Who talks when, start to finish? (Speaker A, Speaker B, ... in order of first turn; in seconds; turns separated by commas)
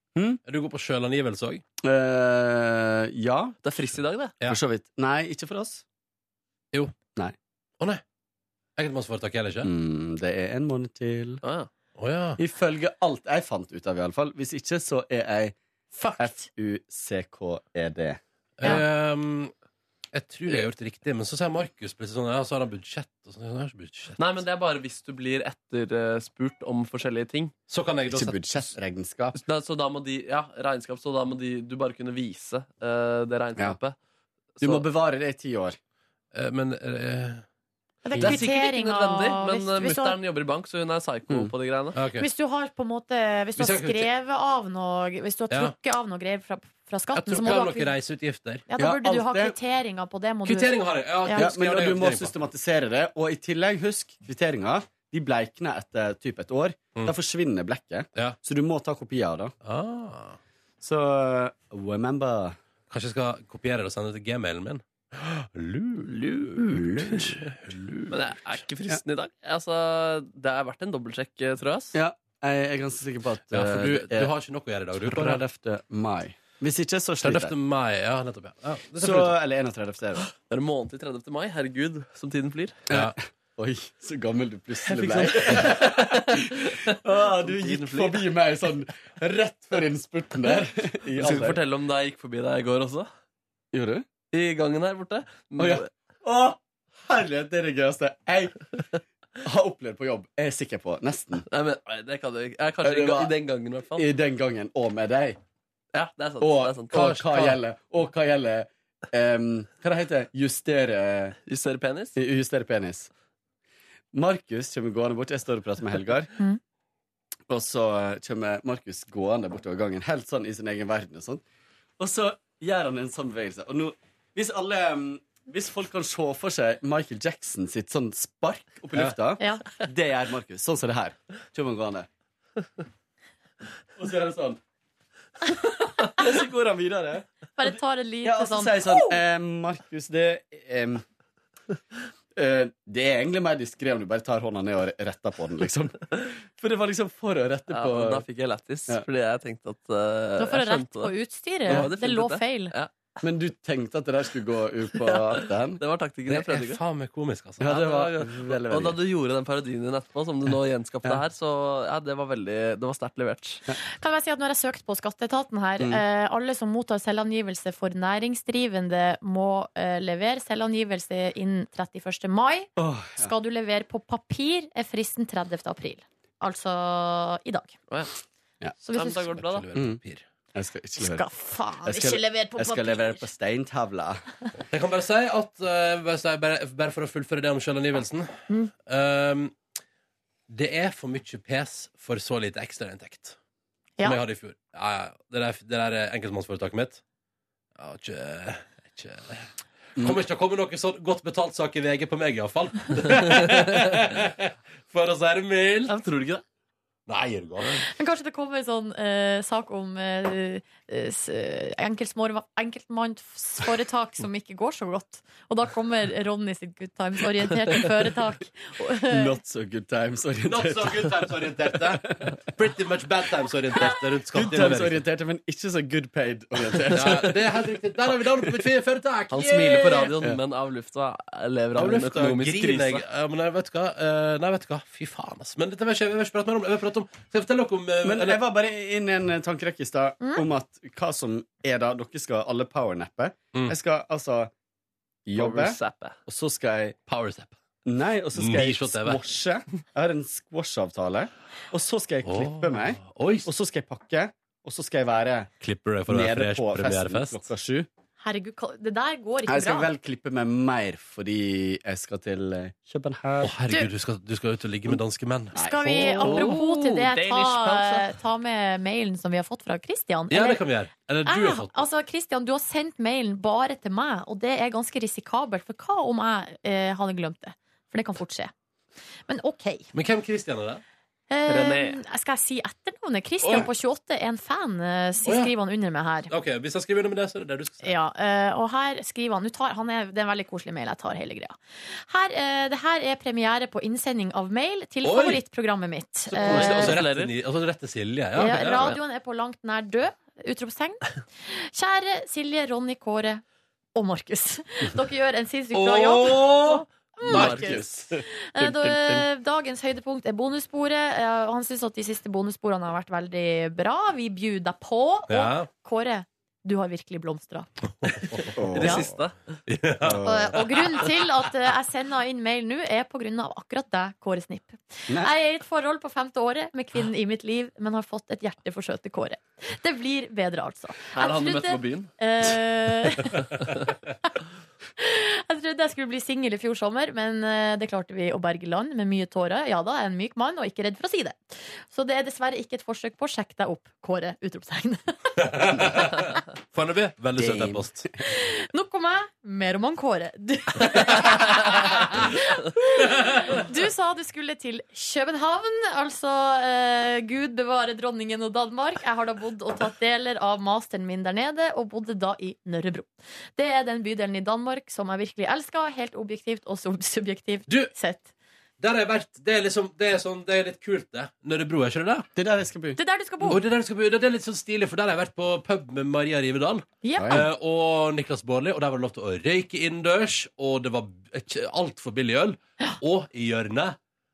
Speaker A: 0.1-0.4, Speaker B: 0.5-1.6, Speaker A: 1.8-3.6, Speaker C: 3.6-4.4, Speaker A: 4.4-5.8, Speaker B: 8.8-9.7, Speaker A: 9.6-11.4, Speaker C: 11.4-11.7, Speaker B: 12.0-12.4, Speaker A: 12.4-15.6, Speaker D: 15.9-16.5, Speaker A: 16.2-18.8, Speaker B: 18.6-19.5, Speaker B: 20.1-24.2, Speaker C: 24.2-27.6, Speaker B: 27.7-28.7, Speaker A: 28.1-29.4, Speaker C: 29.4-34.0, Speaker C: 34.6-34.9, Speaker A: 34.6-35.8, Speaker B: 36.3-37.4, Speaker D: 38.0-40.2, Speaker C: 38.2-42.0, Speaker A: 41.3-41.5, Speaker B: 42.0-42.3, Speaker D: 42.2-47.9, Speaker B: 43.6-44.1, Speaker B: 45.5-45.8, Speaker B: 47.1-48.7, Speaker D: 48.7-51.5, Speaker A: 48.8-49.6, Speaker B: 50.5-52.4, Speaker A: 51.3-59.5, Speaker B: 59.6-60.4, Speaker A: 60.8-62.6, Speaker B: 62.9-68.1, Speaker A: 66.7-67.4, Speaker C: 68.1-72.0, Speaker A: 71.9-74.3, Speaker B: 73.5-75.4, Speaker A: 75.0-77.5, Speaker B: 77.2-79.4, Speaker A: 79.0-80.3, Speaker C: 80.4-82.8, Speaker B: 82.9-83.2, Speaker A: 82.9-91.6, Speaker C: 84.9-88.3, Speaker C: 91.2-93.1, Speaker A: 93.7-94.0, Speaker C: 94.3-95.9, Speaker A: 95.6-98.7, Speaker A: 99.4-101.5, Speaker C: 101.5-104.1, Speaker A: 102.8-103.3, Speaker A: 104.0-105.4, Speaker C: 105.9-107.0, Speaker A: 106.4-111.4, Speaker B: 106.9-107.6, Speaker C: 111.5-112.2, Speaker A: 112.2-113.1, Speaker A: 114.1-116.3, Speaker A: 117.5-121.4, Speaker A: 122.0-132.1, Speaker A: 134.0-134.6, Speaker A: 136.1-141.0, Speaker D: 137.6-139.2, Speaker A: 142.3-148.2, Speaker C: 147.7-151.1, Speaker D: 150.4-152.7, Speaker C: 151.7-152.9, Speaker A: 153.2-155.8, Speaker C: 155.0-156.8, Speaker B: 156.3-157.7, Speaker A: 157.6-159.0, Speaker C: 157.6-163.6, Speaker D: 164.0-177.8, Speaker A: 172.8-173.3, Speaker D: 178.8-179.3, Speaker C: 179.0-179.7, Speaker B: 179.3-180.2, Speaker A: 179.7-180.0, Speaker A: 180.5-181.3, Speaker D: 181.0-183.3, Speaker A: 181.8-184.2, Speaker B: 184.7-189.6, Speaker B: 190.5-193.4, Speaker B: 194.0-197.0, Speaker B: 197.8-205.9, Speaker C: 205.9-206.4, Speaker B: 207.1-207.9, Speaker D: 207.8-219.4, Speaker A: 219.1-222.3, Speaker B: 220.4-225.1, Speaker A: 224.3-227.6, Speaker B: 226.9-230.1, Speaker A: 228.3-228.7, Speaker C: 229.3-233.0, Speaker B: 231.8-238.4, Speaker A: 238.0-244.5, Speaker A: 245.3-247.0, Speaker C: 245.4-246.2, Speaker B: 247.1-247.6, Speaker A: 247.8-255.5, Speaker B: 248.3-249.2, Speaker B: 252.2-253.5, Speaker B: 255.6-257.5, Speaker A: 256.1-257.9, Speaker D: 258.2-259.9, Speaker A: 259.5-263.6, Speaker B: 263.4-265.6, Speaker A: 265.6-266.4, Speaker D: 265.6-270.6, Speaker C: 266.0-268.1, Speaker B: 270.3-271.8, Speaker D: 271.2-278.5, Speaker D: 279.3-279.9, Speaker B: 279.9-280.8, Speaker D: 281.3-286.3, Speaker C: 281.5-282.0, Speaker B: 285.2-285.5, Speaker B: 286.3-288.0, Speaker D: 287.8-297.0, Speaker B: 295.0-295.4, Speaker B: 296.3-299.0, Speaker C: 296.4-297.3, Speaker D: 298.4-303.4, Speaker D: 303.9-317.7, Speaker B: 305.7-307.9, Speaker A: 307.3-309.2, Speaker B: 315.3-315.7, Speaker B: 318.0-319.1, Speaker A: 318.6-319.1, Speaker C: 318.7-319.6, Speaker B: 319.7-321.1, Speaker A: 320.0-320.6, Speaker D: 320.2-333.5, Speaker C: 331.1-332.1, Speaker D: 335.0-345.9, Speaker B: 345.4-348.1, Speaker A: 347.4-347.8, Speaker D: 348.2-368.3, Speaker B: 368.8-372.3, Speaker A: 372.4-373.0, Speaker D: 373.0-373.6, Speaker B: 373.5-384.0, Speaker D: 377.0-377.4, Speaker A: 377.2-377.5